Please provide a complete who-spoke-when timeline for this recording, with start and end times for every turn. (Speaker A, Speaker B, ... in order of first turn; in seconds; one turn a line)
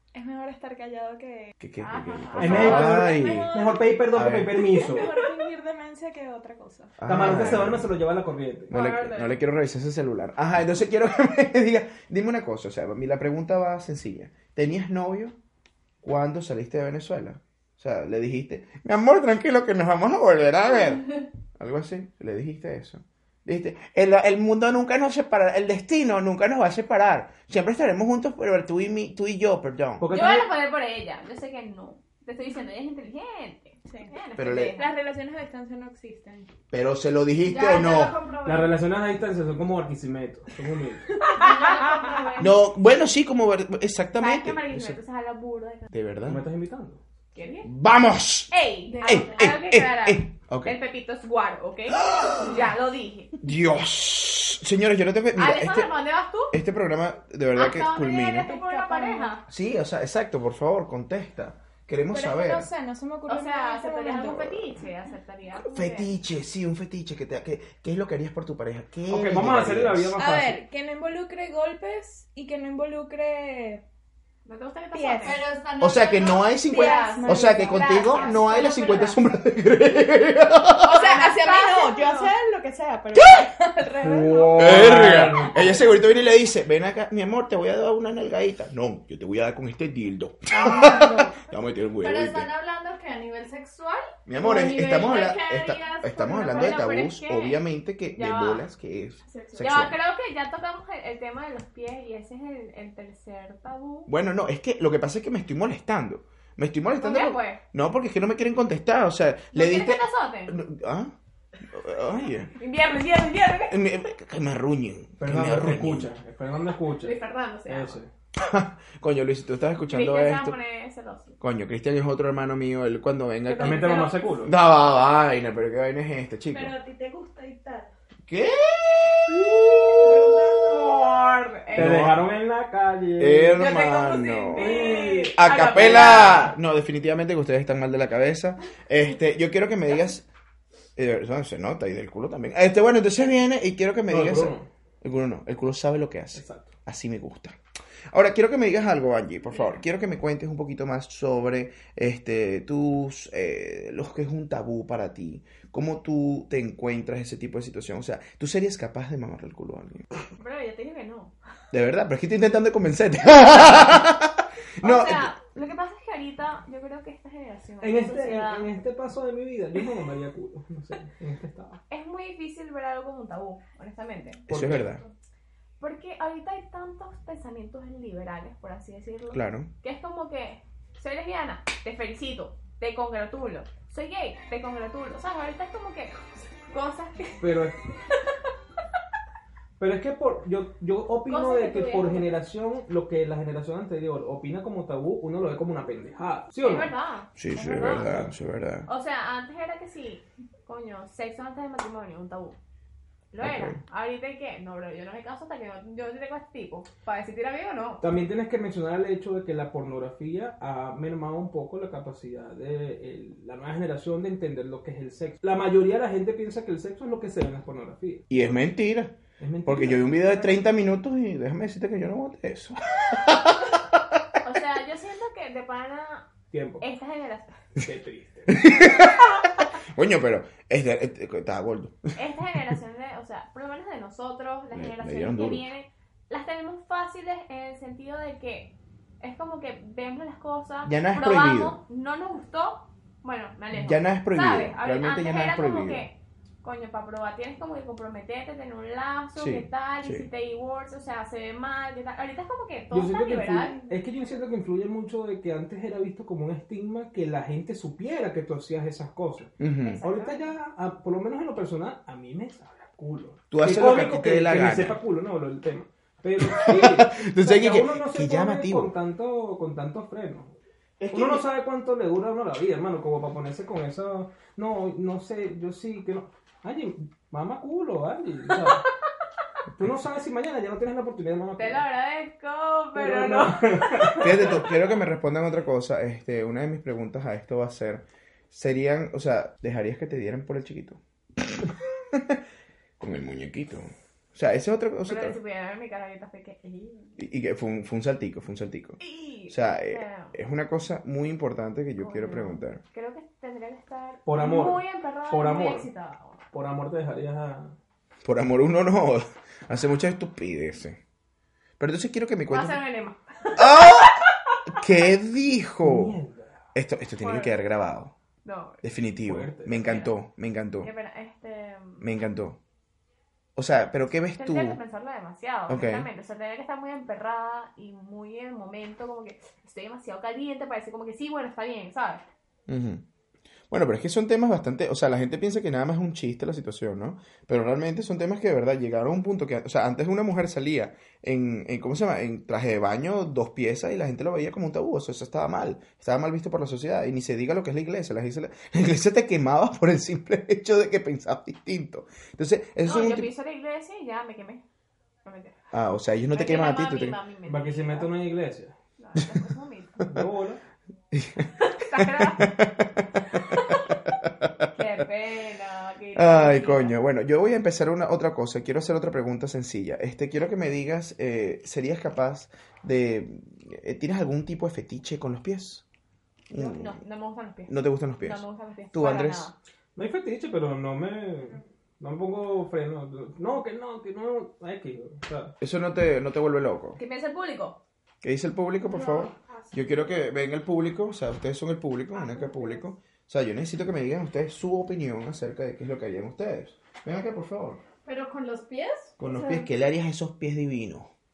Speaker A: 0.1-1.5
Speaker B: 1.6-4.7
Speaker C: 1.8-2.9
Speaker D: 2.4-5.1
Speaker A: 2.6-3.8
Speaker E: 2.8-3.5
Speaker A: 4.6-7.0
Speaker B: 7.0-7.9
Speaker D: 7.1-8.7
Speaker B: 8.7-15.4
Speaker C: 8.7-9.4
Speaker B: 16.0-30.1
Speaker D: 30.0-30.5
Speaker C: 30.1-34.9
Speaker B: 34.4-34.8
Speaker A: 34.8-36.5
Speaker B: 36.7-38.2
Speaker E: 37.4-38.7
Speaker D: 38.4-41.2
Speaker E: 41.2-42.5
Speaker C: 41.2-42.5
Speaker B: 42.4-45.0
Speaker C: 44.2-45.9
Speaker B: 45.9-46.4
Speaker D: 46.2-47.0
Speaker C: 47.3-47.7
Speaker B: 47.6-50.8
Speaker C: 48.5-53.4
Speaker E: 48.9-49.5
Speaker B: 51.9-52.6
Speaker B: 53.4-55.9
Speaker C: 55.4-56.6
Speaker B: 56.5-58.5
Speaker C: 57.5-59.5
Speaker E: 58.5-59.1
Speaker A: 58.8-59.3
Speaker B: 59.5-62.7
Speaker A: 62.1-64.4
Speaker C: 63.3-66.1
Speaker B: 64.2-64.8
Speaker B: 65.5-70.2
Speaker D: 69.1-70.6
Speaker A: 70.2-73.8
Speaker C: 74.5-75.4
Speaker A: 74.9-75.4
Speaker E: 75.2-78.8
Speaker B: 75.8-81.0
Speaker C: 76.7-79.2
Speaker A: 76.8-77.9
Speaker C: 80.9-82.3
Speaker E: 80.9-82.3
Speaker A: 81.0-84.9
Speaker B: 83.1-83.5
Speaker E: 83.2-83.4
Speaker E: 84.0-84.7
Speaker D: 84.0-85.9
Speaker B: 84.5-92.5
Speaker E: 90.5-91.4
Speaker E: 92.0-96.9
Speaker B: 94.3-100.0
Speaker C: 96.4-98.7
Speaker E: 99.3-99.7
Speaker C: 99.6-104.1
Speaker B: 104.1-111.1
Speaker C: 107.0-107.6
Speaker C: 109.5-110.6
Speaker B: 111.7-112.5
Speaker C: 112.6-113.8
Speaker B: 113.7-116.1
Speaker D: 115.2-118.1
Speaker C: 117.0-118.0
Speaker B: 118.4-120.5
Speaker C: 119.9-121.4
Speaker B: 121.4-126.8
Speaker C: 123.5-124.5
Speaker D: 123.6-124.5
Speaker A: 126.5-127.9
Speaker B: 128.3-130.2
Speaker C: 130.0-131.9
Speaker D: 131.7-133.7
Speaker B: 131.8-132.3
Speaker B: 133.2-140.3
Speaker C: 133.6-136.5
Speaker D: 134.6-135.3
Speaker B: 141.0-147.6
Speaker D: 144.1-144.7
Speaker D: 146.3-146.7
Speaker B: 148.1-160.1
Speaker C: 160.4-161.3
Speaker B: 161.7-165.3
Speaker C: 164.8-168.7
Speaker D: 167.8-171.8
Speaker C: 171.9-174.4
Speaker B: 174.5-175.0
Speaker D: 174.5-174.9
Speaker C: 175.8-187.6
Speaker B: 179.3-179.7
Speaker D: 187.4-187.8
Speaker D: 189.8-196.9
Speaker C: 191.3-192.4
Speaker C: 196.6-198.2
Speaker B: 197.4-198.9
Speaker D: 197.8-198.3
Speaker C: 198.9-202.6
Speaker C: 203.3-208.0
Speaker B: 203.4-203.8
Speaker D: 208.0-218.4
Speaker B: 218.3-219.2
Speaker D: 219.4-220.6
Speaker B: 219.7-224.2
Speaker C: 224.4-226.3
Speaker D: 226.5-226.8
Speaker C: 226.8-227.6
Speaker D: 227.8-228.6
Speaker B: 228.5-229.4
Speaker C: 228.8-229.1
Speaker B: 229.9-232.1
Speaker C: 232.2-254.0
Speaker B: 234.7-235.6
Speaker B: 240.8-241.8
Speaker B: 243.7-246.1
Speaker B: 249.4-250.3
Speaker D: 252.9-270.6
Speaker B: 259.6-260.0
Speaker C: 259.8-260.5
Speaker B: 263.5-265.0
Speaker B: 266.4-268.9
Speaker B: 271.0-271.5
Speaker D: 271.1-278.8
Speaker D: 279.8-281.8
Speaker C: 281.6-284.4
Speaker D: 282.9-284.6
Speaker B: 284.2-292.4
Speaker B: 293.0-295.4
Speaker C: 295.1-297.2
Speaker B: 297.2-302.8
Speaker C: 299.0-300.4
Speaker C: 302.0-306.4
Speaker D: 304.3-305.9
Speaker D: 306.5-307.8
Speaker B: 308.2-311.0
Speaker B: 311.8-312.8
Speaker C: 312.5-314.6
Speaker B: 313.6-314.1
Speaker B: 314.7-316.2
Speaker D: 315.8-316.5
Speaker B: 316.7-318.1
Speaker C: 317.2-317.6
Speaker C: 318.4-318.8
Speaker B: 318.8-320.9
Speaker D: 319.2-320.0
Speaker C: 319.8-320.1
Speaker C: 320.8-322.0
Speaker B: 322.0-322.6
Speaker B: 323.6-324.8
Speaker C: 324.4-332.2
Speaker B: 325.7-326.1
Speaker B: 332.7-333.0
Speaker B: 333.7-353.3
Speaker C: 352.8-354.6
Speaker C: 355.2-355.6
Speaker B: 355.7-357.2
Speaker C: 356.3-358.1
Speaker D: 357.5-358.7
Speaker C: 359.0-360.1
Speaker D: 360.1-360.6
Speaker B: 361.1-364.7
Speaker C: 361.6-362.5
Speaker C: 363.3-363.9
Speaker C: 364.7-367.0
Speaker B: 366.1-375.9
Speaker B: 376.5-377.0
Speaker C: 376.5-379.6
Speaker B: 377.7-379.5
Speaker D: 380.0-385.5
Speaker B: 385.6-387.0
Speaker C: 387.0-387.8
Speaker B: 388.2-397.8
Speaker C: 392.1-392.9
Speaker E: 398.0-399.7
Speaker B: 399.2-401.1